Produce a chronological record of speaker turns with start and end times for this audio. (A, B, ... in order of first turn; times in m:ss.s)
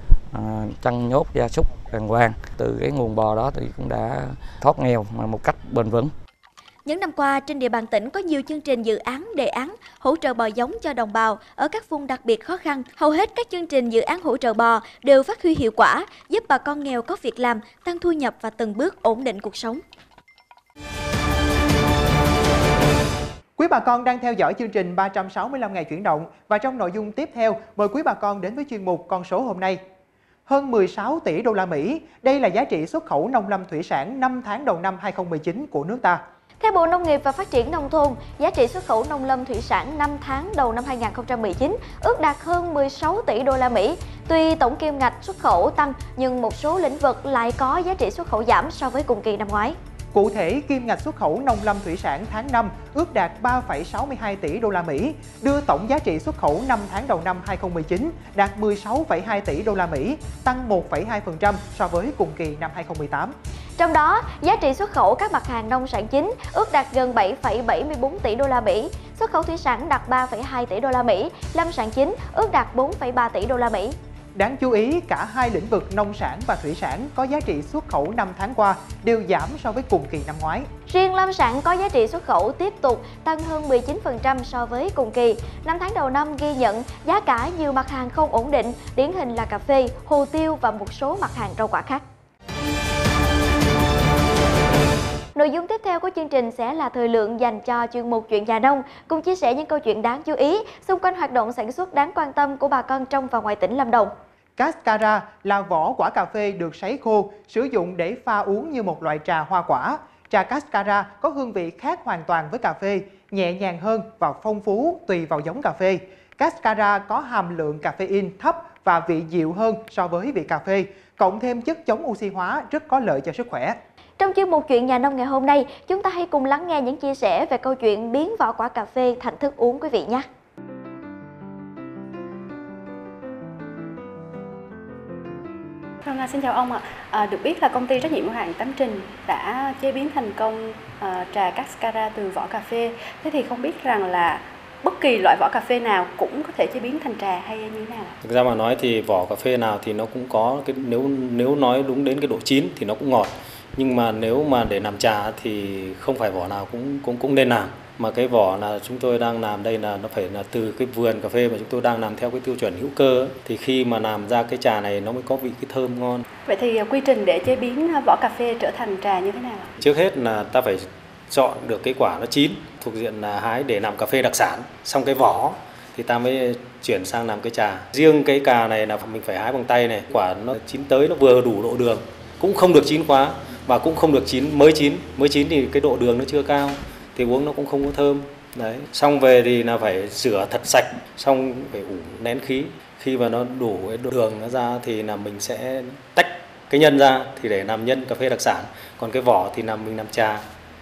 0:00.3-0:06.1 A
0:06.8-0:19.8 B
0:23.6-0:29.8 C
0:30.5-0:36.2 C
0:36.6-0:49.8 B
0:50.1-1:03.3 C
1:03.8-1:13.9 B
1:14.4-1:20.7 C
1:20.9-1:32.0 B
1:35.3-1:44.1 B
1:44.6-2:03.8 C
2:04.2-2:10.2 B
2:16.0-2:28.2 D
2:28.2-2:46.2 E
2:46.5-2:49.7 D
2:49.8-3:20.4 E